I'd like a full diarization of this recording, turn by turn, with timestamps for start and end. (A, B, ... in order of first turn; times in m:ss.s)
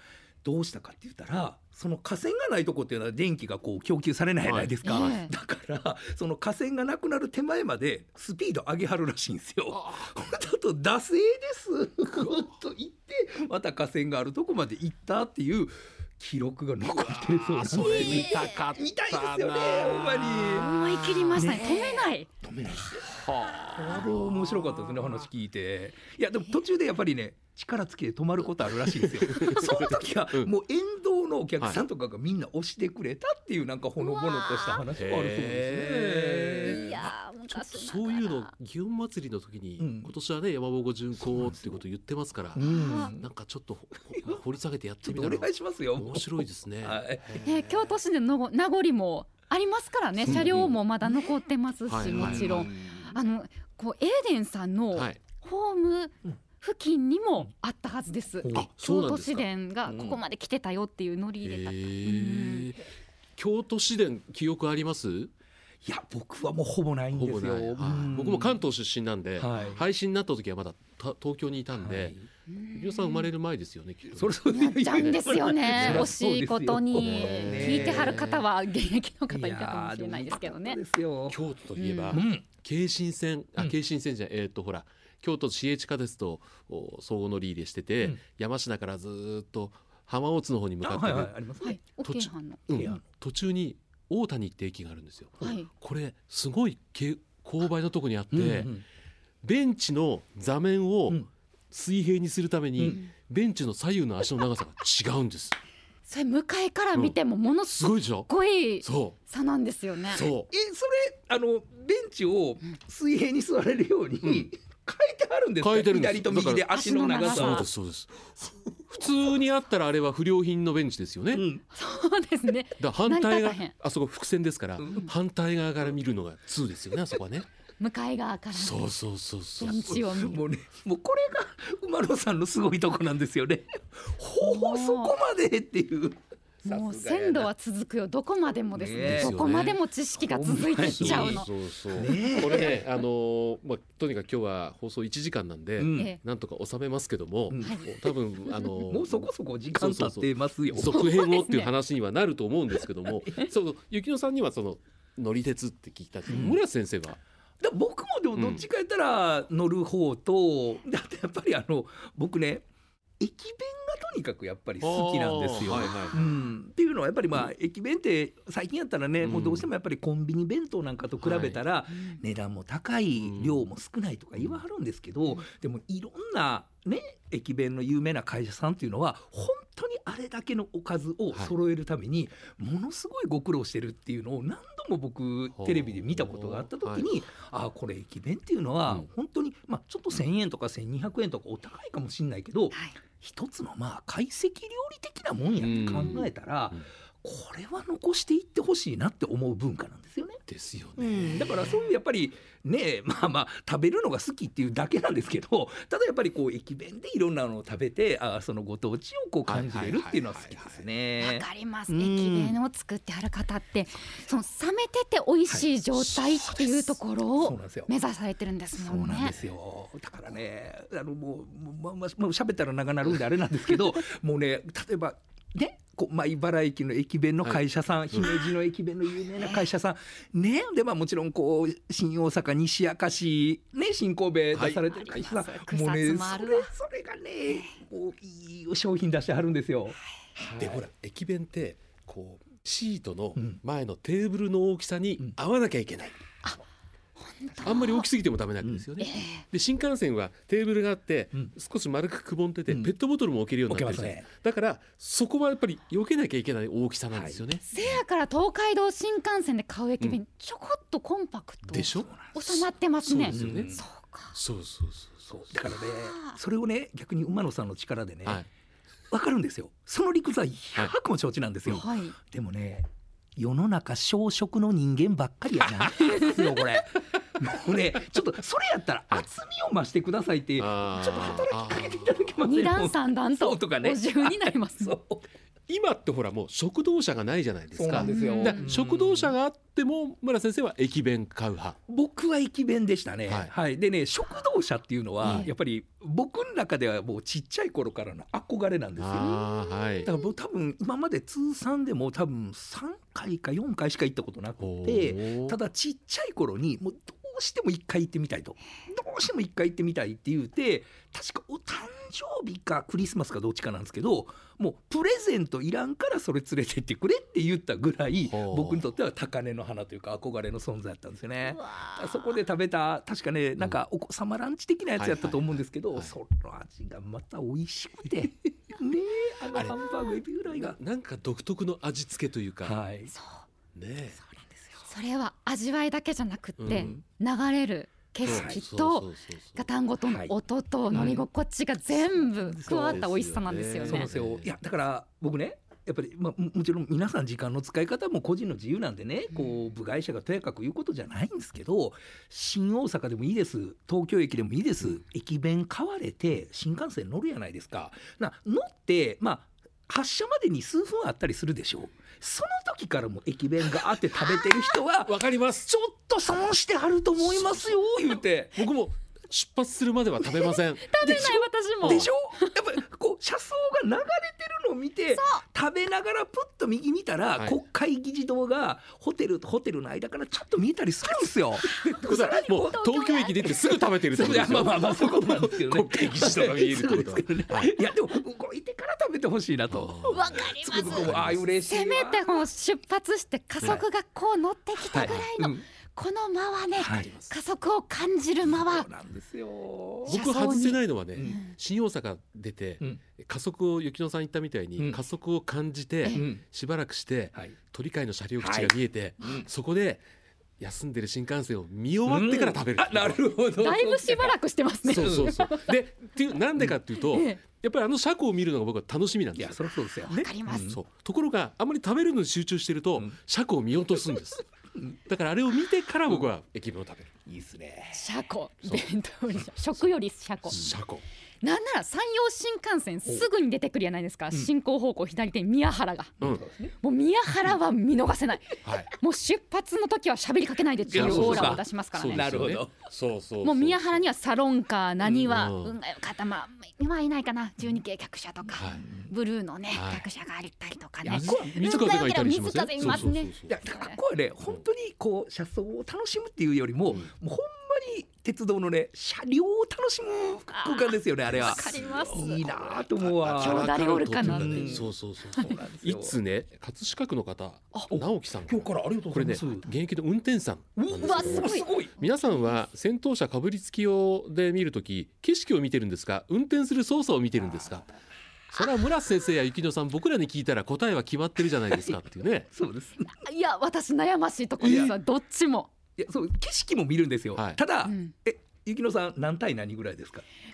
0:00.4-0:20.8 A
0:04.4-0:05.2 B
0:04.8-0:05.3 C
0:09.7-0:10.1 B
0:12.1-0:12.5 B
0:16.8-0:21.5 B
0:17.8-0:18.6 C
0:20.5-0:22.3 C
0:21.3-0:23.1 A
0:23.0-0:25.0 B
0:23.7-0:37.1 A
0:28.6-0:30.5 B
0:34.0-0:34.8 C
0:34.9-0:36.9 B
0:36.6-0:38.5 C
0:37.6-0:47.8 B
0:39.8-0:40.1 A
0:41.2-0:41.8 A
0:42.5-0:43.3 A
0:42.6-0:43.1 C
0:44.1-0:44.4 A
0:45.0-0:47.4 A
0:47.4-1:02.7 C
0:50.3-0:50.8 B
0:51.0-0:51.3 A
0:51.8-0:52.7 B
0:52.0-0:53.1 A
0:54.9-0:55.2 B
0:58.4-0:58.7 A
0:58.5-0:59.4 B
0:59.9-1:00.2 A
1:01.4-1:02.8 B
1:03.4-1:05.3 B
1:05.8-1:08.6 A
1:07.1-1:12.2 B
1:09.4-1:09.8 A
1:11.7-1:12.3 A
1:12.5-1:13.3 C
1:12.7-1:16.1 B
1:14.1-1:18.2 A
1:14.5-1:20.8 C
1:16.9-1:18.5 B
1:19.3-1:21.4 A
1:21.3-1:31.3 B
1:21.7-1:22.2 C
1:22.1-1:22.4 A
1:30.8-1:31.8 A
1:31.6-1:32.6 C
1:32.0-1:38.7 B
1:32.8-1:33.0 A
1:35.4-1:35.7 C
1:38.3-1:38.8 A
1:39.4-1:45.6 B
1:46.0-1:50.3 C
1:46.9-1:48.3 B
1:48.8-1:49.2 B
1:50.1-1:50.5 B
1:50.5-1:57.7 A
1:55.6-2:01.4 B
1:56.7-1:57.6 C
2:01.3-2:01.6 A
2:01.6-2:03.7 C
2:02.8-2:07.5 B
2:07.8-2:08.9 C
2:08.5-2:10.3 B
2:09.6-2:10.4 C
2:09.6-2:17.5 A
2:14.4-2:15.2 C
2:16.6-2:21.5 C
2:18.7-2:19.4 A
2:19.0-2:19.8 B
2:20.2-2:22.8 A
2:20.7-2:37.2 B
2:25.8-2:26.1 A
2:25.9-2:26.2 C
2:27.5-2:27.9 A
2:27.6-2:28.7 C
2:28.8-2:31.1 A
2:30.8-2:31.7 C
2:36.3-2:36.6 A
2:37.6-2:42.7 A
2:38.3-2:38.6 B
2:43.2-3:20.4 A
2:44.8-2:46.1 B
2:45.8-2:46.3 C
2:49.2-2:49.7 B
2:51.2-2:51.6 B
2:51.9-2:52.2 C
2:53.2-2:53.6 B
3:05.6-3:07.2 B
3:15.6-3:16.8 B
3:15.8-3:16.2 C
3:20.5-3:21.7 B
3:21.0-3:32.6 A
3:29.4-3:30.8 B
3:31.2-3:39.3 C
3:35.5-3:37.9 A
3:38.8-4:00.8 A
3:48.1-3:48.4 B
3:54.5-3:55.3 B
3:54.8-3:56.7 C
4:00.4-4:06.2 B
4:03.4-4:03.6 A
4:07.2-4:08.1 C
4:07.6-4:18.0 B
4:09.0-4:09.4 C
4:12.7-4:12.9 A
4:13.7-4:14.2 A
4:17.1-4:17.4 A
4:17.6-4:24.3 C
4:21.7-4:23.8 B
4:22.0-4:22.3 A
4:23.3-4:23.8 A
4:24.3-4:25.2 B
4:25.2-4:28.4 A
4:25.8-4:26.4 C
4:29.1-4:45.2 A
4:31.7-4:32.2 C
4:40.6-4:42.3 B
4:42.4-4:45.0 C
4:45.7-4:51.8 B
4:47.7-4:49.3 A
4:47.9-4:48.7 C
4:51.9-4:59.4 A
4:53.3-4:53.5 B
4:55.2-4:55.5 B
4:59.0-5:00.1 B
5:00.0-5:30.8 A
5:04.6-5:05.6 B
5:18.2-5:18.9 B
5:21.6-5:22.1 C
5:24.9-5:26.2 B
5:29.5-5:29.9 B
5:30.5-5:32.8 B
5:32.6-5:33.1 A
5:33.1-5:33.4 C
5:33.7-5:34.2 B
5:34.3-5:34.9 A
5:34.9-5:44.1 C
5:36.6-5:37.0 B
5:36.7-5:37.0 A
5:38.2-5:39.7 B
5:38.2-5:38.6 A
5:40.0-5:40.3 A
5:40.9-5:41.2 A
5:40.9-5:41.2 B
5:41.9-5:43.1 A
5:42.6-5:44.5 B
5:43.8-6:08.6 A
6:05.0-6:05.7 B
6:07.2-6:07.7 B
6:08.5-6:10.9 B
6:10.2-6:12.7 C
6:11.0-6:22.8 A
6:11.8-6:12.1 B
6:15.1-6:15.4 C
6:21.7-6:23.9 C
6:21.8-6:27.8 B
6:24.1-6:32.5 A
6:29.7-6:31.4 B
6:30.0-6:38.9 C
6:34.9-6:35.6 A
6:34.9-6:35.3 B
6:36.8-6:37.1 A
6:36.9-6:37.3 B
6:38.4-6:40.2 A
6:40.1-6:41.5 C
6:40.1-6:50.0 B
6:46.1-6:46.4 A
6:48.4-6:49.5 A
6:50.6-6:53.3 B
6:52.0-6:55.3 A
6:53.5-6:55.8 C
6:54.8-6:59.6 B
6:56.9-6:57.4 C
6:59.3-7:00.8 A
7:00.1-7:00.7 C
7:00.5-7:04.5 B
7:05.0-7:07.1 B
7:07.2-7:08.1 A
7:07.9-7:10.7 C
7:08.6-7:09.4 B
7:10.5-7:11.0 B
7:11.4-7:16.1 C
7:16.2-7:16.7 A
7:16.8-7:22.5 C
7:18.6-7:18.9 B
7:20.9-7:22.7 A
7:20.9-7:24.1 B
7:23.4-7:34.0 C
7:25.0-7:25.7 B
7:28.5-7:28.8 B
7:29.7-7:30.1 B
7:31.0-7:31.8 A
7:31.0-7:33.6 B
7:32.8-7:46.2 A
7:40.5-7:42.5 C
7:41.3-7:57.9 B
7:43.4-7:44.8 C
7:47.9-7:49.7 A
7:50.8-7:51.9 A
7:51.0-7:51.8 C
7:58.5-8:02.5 B
8:02.5-8:03.1 A
8:03.0-8:05.7 C
8:04.6-8:05.0 B
8:04.6-8:05.0 A
8:06.0-8:10.2 A
8:07.3-8:07.6 B
8:07.8-8:08.1 C